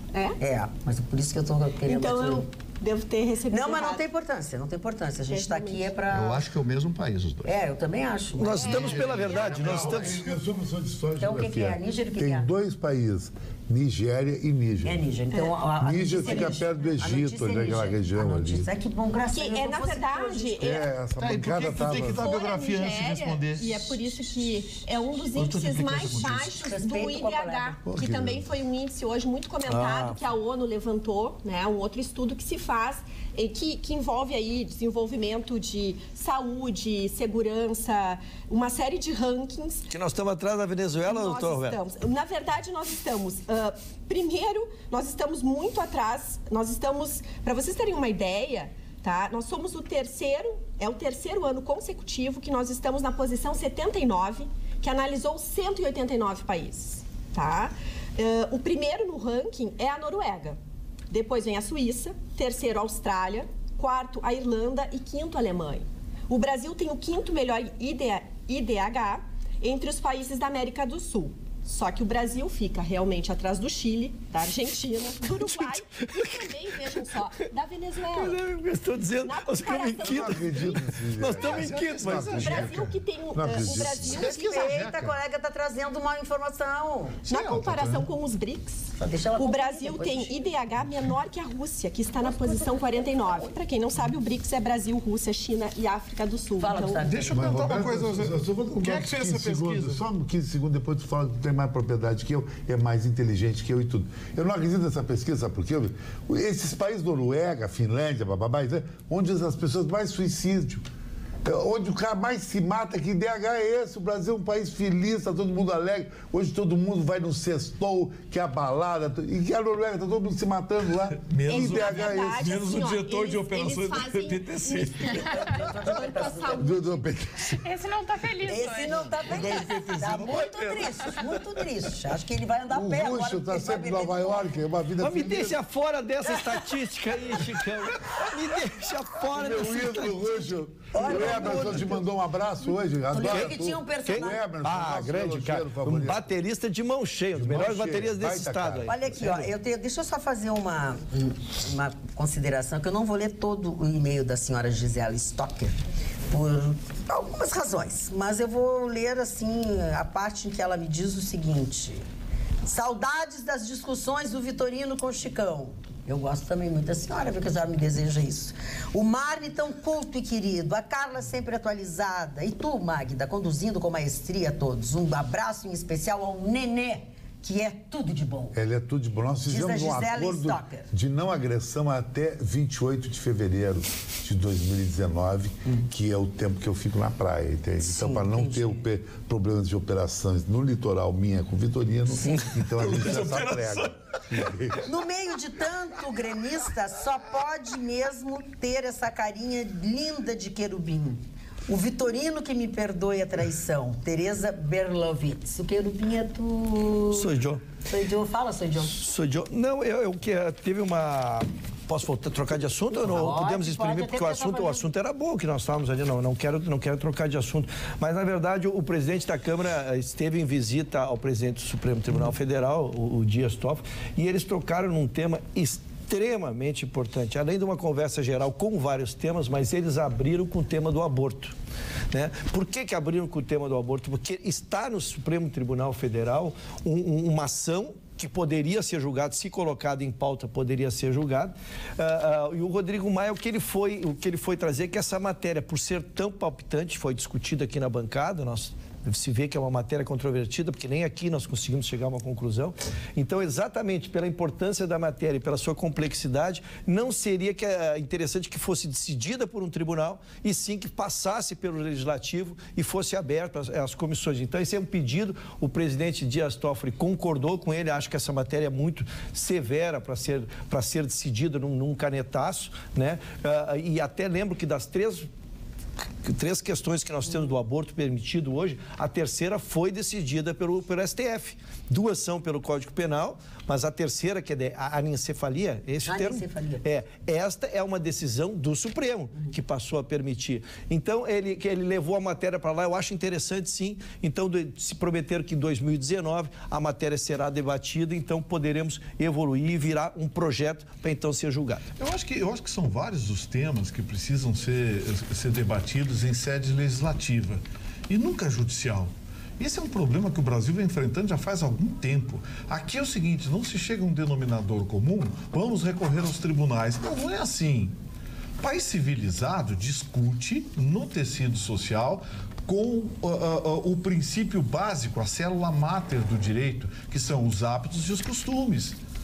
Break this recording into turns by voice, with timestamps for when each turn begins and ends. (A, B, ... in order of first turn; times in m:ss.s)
0:00.1-0:00.4 A
0:00.4-0:02.5 B
0:01.8-0:04.0 A
0:03.5-0:06.4 B
0:05.3-0:05.9 A
0:06.1-0:07.6 C
0:07.4-0:09.0 B
0:08.4-0:10.3 D
0:08.6-0:09.4 C
0:08.7-0:09.5 E
0:08.9-0:10.2 F
0:09.6-0:15.0 G
0:11.2-0:12.5 B
0:14.8-0:20.6 B
0:15.8-0:18.7 G
0:16.2-0:16.5 A
0:19.3-0:20.9 A
0:20.6-0:22.3 G
0:21.2-0:21.7 C
0:21.2-0:24.0 F
0:22.2-0:39.9 A
0:22.9-0:23.4 C
0:25.4-0:26.4 C
0:25.4-0:26.4 F
0:26.2-0:27.8 B
0:27.8-0:28.4 G
0:29.6-0:30.2 D
0:39.9-0:41.8 D
0:41.1-1:00.6 A
1:01.1-1:18.4 A
1:16.0-1:16.5 D
1:18.1-1:22.7 D
1:19.2-1:20.8 A
1:20.0-1:24.2 G
1:21.4-1:23.0 F
1:22.4-1:24.7 A
1:23.7-1:25.2 F
1:24.0-1:27.2 B
1:27.3-1:37.2 A
1:27.3-1:28.1 F
1:29.0-1:30.4 B
1:36.6-1:37.4 B
1:37.0-1:40.0 F
1:37.3-1:50.8 G
1:51.4-2:02.5 G
2:01.3-2:05.7 F
2:01.5-2:06.8 A
2:05.3-2:06.9 B
2:06.6-2:07.6 G
2:07.5-2:09.2 E
2:08.4-2:14.6 B
2:09.2-2:11.2 F
2:12.7-2:15.6 G
2:15.0-2:22.0 D
2:19.2-2:26.3 G
2:20.9-2:21.9 B
2:23.1-2:24.4 B
2:23.2-2:28.9 D
2:27.3-2:29.5 G
2:28.9-2:35.7 B
2:36.3-2:42.0 B
2:42.6-2:58.6 B
2:58.5-3:14.8 G
2:59.5-3:00.9 B
3:07.8-3:08.8 B
3:12.7-3:14.5 F
3:14.8-3:27.3 B
3:27.1-3:27.6 D
3:27.8-3:29.0 B
3:28.9-3:51.5 D
3:33.0-3:34.8 B
3:52.1-4:35.3 D
4:36.2-5:01.9 D
4:46.0-4:46.8 B
5:02.0-5:17.9 F
5:18.6-5:29.0 F